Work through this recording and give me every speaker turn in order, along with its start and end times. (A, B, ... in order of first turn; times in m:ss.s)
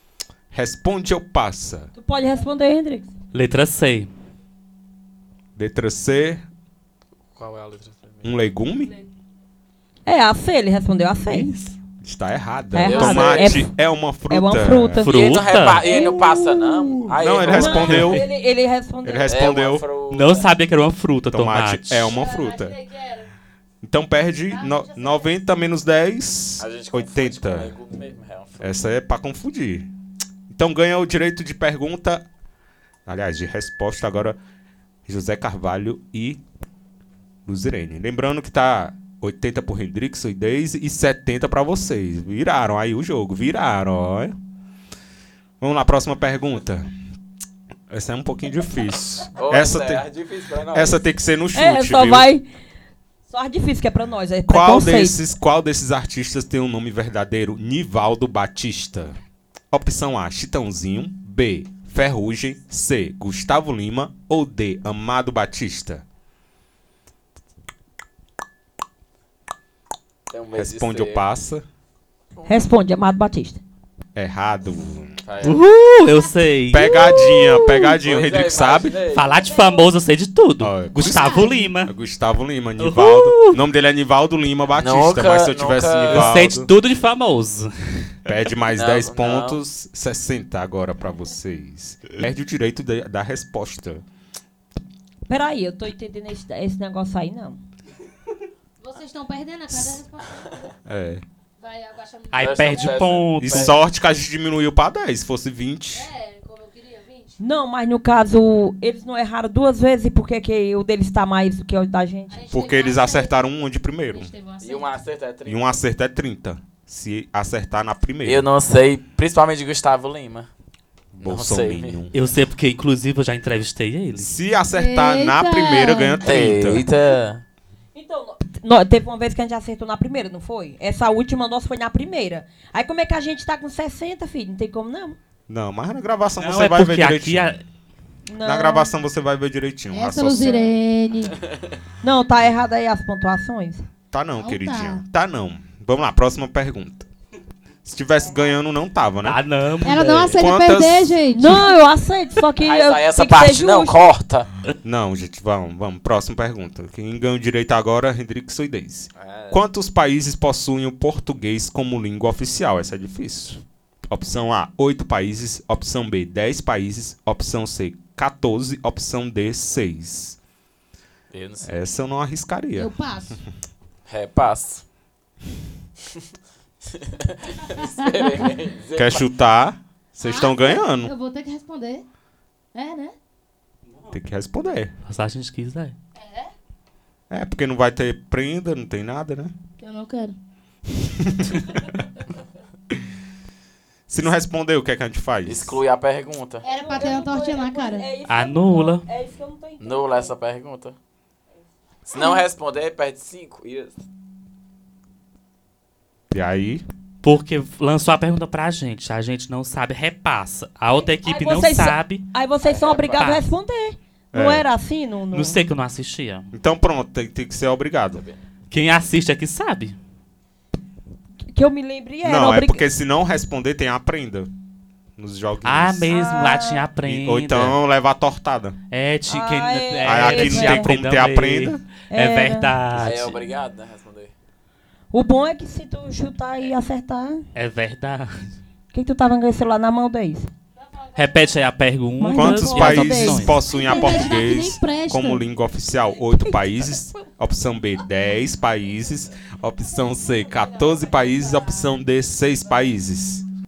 0:00.5-0:01.9 A
0:01.9-0:03.1 B
0:03.3-0:04.1 C
0:05.6-0:06.4 A
0:07.3-0:08.3 D
0:08.2-0:08.9 A
0:10.0-0:11.6 B
0:11.3-0:11.7 C
0:12.0-0:15.0 A
0:12.7-0:13.7 B
0:12.8-0:13.6 D
0:14.3-0:15.2 B
0:15.0-0:16.0 C
0:15.1-0:18.2 D
0:15.9-0:16.5 A
0:17.1-0:18.2 A
0:17.4-0:19.4 B
0:19.0-0:19.8 A
0:19.3-0:20.5 D
0:20.1-0:22.1 C
0:21.3-0:22.8 A
0:22.0-0:23.3 E
0:23.8-0:27.8 A
0:24.5-0:25.3 E
0:26.6-0:28.8 D
0:28.6-0:29.9 A
0:30.5-0:32.2 A
0:33.0-0:34.4 A
0:35.0-0:36.4 A
0:37.4-0:44.3 A
0:45.6-0:46.9 A
0:47.9-0:50.0 A
0:49.3-0:51.0 D
0:50.7-0:52.3 A
0:51.5-0:52.4 B
0:53.3-0:55.2 B
0:54.5-0:59.2 A
0:59.7-1:06.0 A
1:10.3-1:11.2 D
1:10.5-1:11.6 A
1:12.4-1:13.6 B
1:14.1-1:15.1 A
1:15.2-1:15.6 D
1:15.4-1:17.9 C
1:16.7-1:19.0 A
1:18.0-1:19.3 D
1:19.1-1:21.9 C
1:19.4-1:19.9 B
1:20.6-1:26.7 A
1:21.0-1:21.6 F
1:22.8-1:23.6 C
1:24.8-1:26.3 D
1:26.1-1:27.7 C
1:28.2-1:34.0 A
1:28.7-1:29.6 D
1:35.3-1:37.6 B
1:38.8-1:40.7 E
1:40.8-1:41.2 A
1:41.6-1:43.2 E
1:42.3-1:43.7 C
1:42.4-1:43.8 D
1:43.4-1:46.1 A
1:45.9-1:47.4 E
1:47.4-1:52.3 B
1:52.3-1:53.3 E
1:52.5-1:54.3 A
1:54.1-1:55.0 E
1:54.6-1:55.7 D
1:55.4-1:58.4 A
1:58.2-2:00.5 D
2:01.2-2:02.1 A
2:01.2-2:02.0 D
2:02.1-2:04.3 C
2:04.2-2:06.9 A
2:04.7-2:06.2 F
2:06.2-2:07.4 D
2:07.9-2:15.2 B
2:15.5-2:17.6 A
2:16.4-2:17.6 C
2:18.3-2:18.9 B
2:18.4-2:20.7 A
2:19.9-2:21.3 F
2:22.0-2:23.8 B
2:24.1-2:27.0 A
2:24.4-2:25.0 F
2:27.8-2:29.4 A
2:29.2-2:30.3 C
2:29.8-2:31.7 F
2:30.4-2:31.2 A
2:31.3-2:34.1 B
2:32.6-2:34.5 D
2:34.8-2:50.4 A
2:39.2-2:39.6 D
2:51.3-2:51.7 D
2:51.6-2:52.9 A
2:52.8-2:53.4 F
2:54.1-2:54.8 D
2:56.8-2:59.2 D
2:59.0-3:01.1 A
3:00.2-3:02.0 F
3:02.7-3:03.1 F
3:04.1-3:04.9 A
3:05.0-3:05.9 C
3:06.2-3:06.5 E
3:07.3-3:09.5 A
3:09.8-3:10.4 F
3:11.0-3:11.6 A
3:14.1-3:15.8 A
3:15.4-3:16.6 D
3:16.6-3:18.1 F
3:16.6-3:20.4 B
3:16.7-3:17.0 E
3:18.3-3:19.0 C
3:19.8-3:21.0 D
3:22.0-3:24.0 D
3:26.3-3:26.8 A
3:27.2-3:32.2 C
3:31.2-3:35.6 B
3:32.6-3:33.3 D
3:33.2-3:33.4 C
3:34.3-3:34.6 A
3:35.3-3:36.5 C
3:36.5-3:38.2 A
3:38.1-3:38.4 D
3:38.7-3:40.0 C
3:41.5-3:42.8 B
3:42.2-3:44.5 A
3:45.2-3:46.1 A
3:45.6-3:47.8 C
3:46.1-3:46.8 B
3:47.0-3:48.8 A
3:48.9-3:53.4 C
3:49.3-3:50.9 B
3:50.0-3:51.8 A
3:52.1-3:52.7 B
3:52.9-3:54.3 D
3:55.1-3:57.4 B
3:57.5-3:58.5 C
3:58.9-4:00.5 B
4:00.7-4:01.7 E
4:01.1-4:03.6 C
4:02.2-4:03.5 B
4:02.3-4:13.4 A
4:03.7-4:05.4 F
4:09.9-4:11.9 E